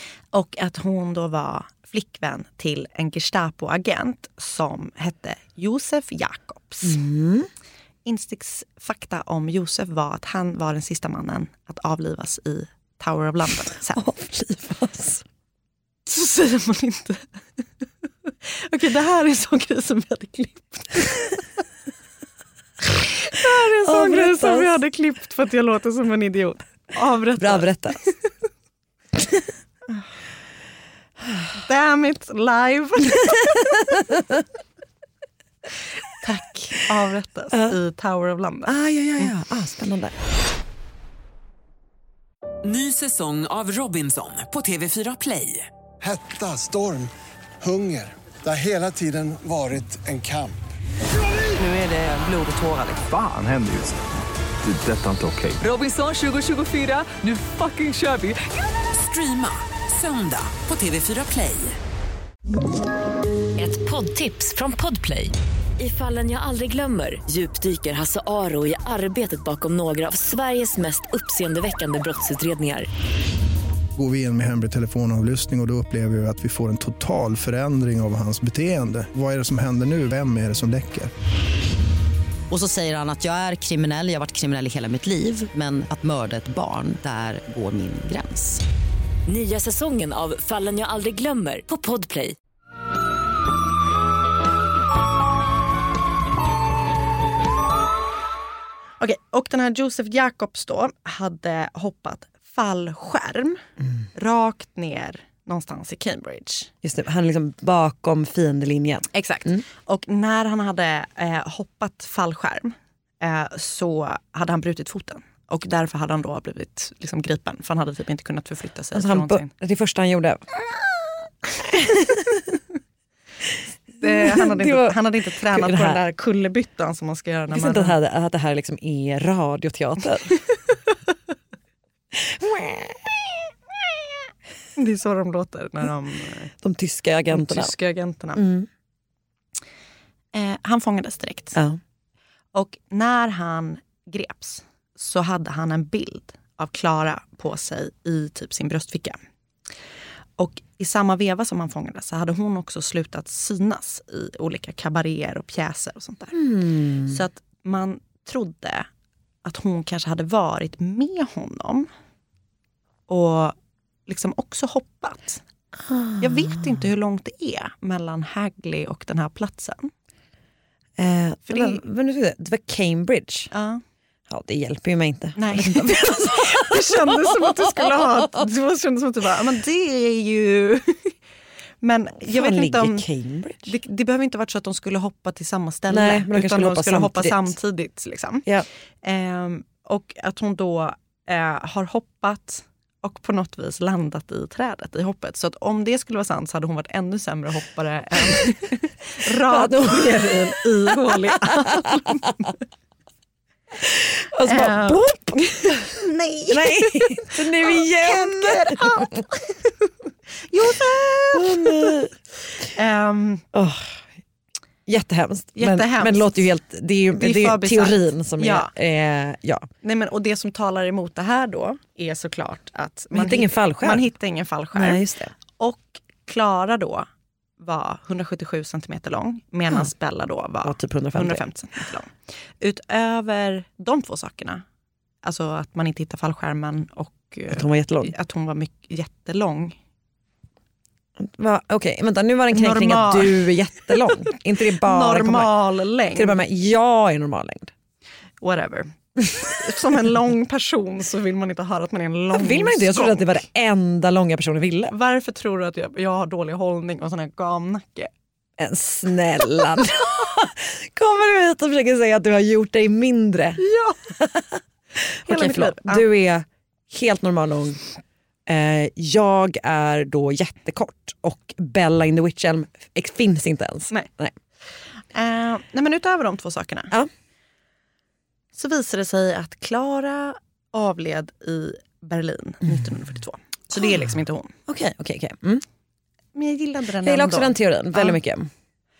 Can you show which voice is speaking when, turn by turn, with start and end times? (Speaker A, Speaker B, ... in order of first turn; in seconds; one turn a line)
Speaker A: 0.3-7.0
Speaker B: 6.8-7.5
Speaker A: 8.0-14.0
Speaker B: 13.9-15.2
Speaker A: 16.1-17.2
Speaker A: 18.5-21.4
Speaker A: 23.1-28.1
Speaker B: 23.8-24.7
Speaker B: 27.4-28.0
Speaker B: 29.2-29.4
Speaker B: 31.2-31.5
Speaker A: 31.5-33.7
Speaker B: 34.0-34.3
Speaker A: 36.2-39.3
Speaker B: 37.5-37.8
Speaker B: 38.7-40.1
Speaker C: 42.6-45.7
Speaker D: 46.0-50.6
Speaker C: 51.6-53.0
Speaker E: 53.0-54.0
Speaker E: 54.6-55.6
Speaker C: 55.6-61.8
Speaker F: 63.6-72.9
Speaker G: 73.9-81.1
Speaker H: 82.5-88.6
Speaker F: 89.3-92.3
Speaker A: 99.0-103.6
Speaker A: 104.1-106.7
Speaker B: 106.8-109.6
Speaker A: 109.1-119.5
Speaker B: 118.9-120.4
Speaker B: 121.7-122.3
Speaker A: 124.0-127.9
Speaker B: 124.0-125.0
Speaker B: 125.5-126.0
Speaker B: 127.5-130.3
Speaker B: 132.1-133.3
Speaker A: 134.8-136.5
Speaker B: 136.6-137.7
Speaker A: 137.3-138.4
Speaker B: 138.3-138.7
Speaker A: 140.3-141.6
Speaker A: 142.5-149.2
Speaker A: 150.4-156.4
Speaker B: 156.3-157.1
Speaker A: 157.0-158.9
Speaker A: 159.4-161.9
Speaker A: 163.1-163.5
Speaker A: 164.1-165.4
Speaker B: 165.9-166.7
Speaker A: 166.2-169.9
Speaker B: 171.0-173.5
Speaker A: 171.5-171.8
Speaker A: 173.5-173.8
Speaker B: 174.3-178.2
Speaker A: 175.4-181.2
Speaker A: 181.8-183.1
Speaker B: 182.2-183.7
Speaker A: 183.6-188.5
Speaker B: 185.9-187.5
Speaker A: 189.0-202.5
Speaker B: 199.2-201.8
Speaker B: 203.8-205.3
Speaker A: 204.4-209.9
Speaker B: 206.5-209.2
Speaker A: 210.5-212.0
Speaker B: 211.3-212.1
Speaker A: 212.7-213.4
Speaker B: 213.5-214.0
Speaker B: 214.9-219.7
Speaker A: 215.6-216.5
Speaker A: 217.2-218.7
Speaker A: 219.8-225.0
Speaker B: 223.1-224.1
Speaker B: 224.7-225.3
Speaker A: 225.6-227.1
Speaker A: 227.6-234.6
Speaker B: 230.6-231.4
Speaker A: 235.2-239.8
Speaker B: 237.5-238.1
Speaker B: 241.2-245.6
Speaker A: 242.5-244.1
Speaker A: 244.8-246.3
Speaker B: 246.1-247.7
Speaker A: 248.4-253.3
Speaker B: 252.3-254.9
Speaker A: 254.9-258.1
Speaker B: 258.6-263.6
Speaker A: 263.6-264.1
Speaker B: 264.1-264.5
Speaker B: 265.2-267.8
Speaker A: 265.2-266.1
Speaker B: 268.5-274.3
Speaker A: 275.1-276.9
Speaker A: 278.5-284.5
Speaker B: 283.7-284.0
Speaker B: 284.7-285.6
Speaker A: 286.3-288.1
Speaker B: 287.0-288.5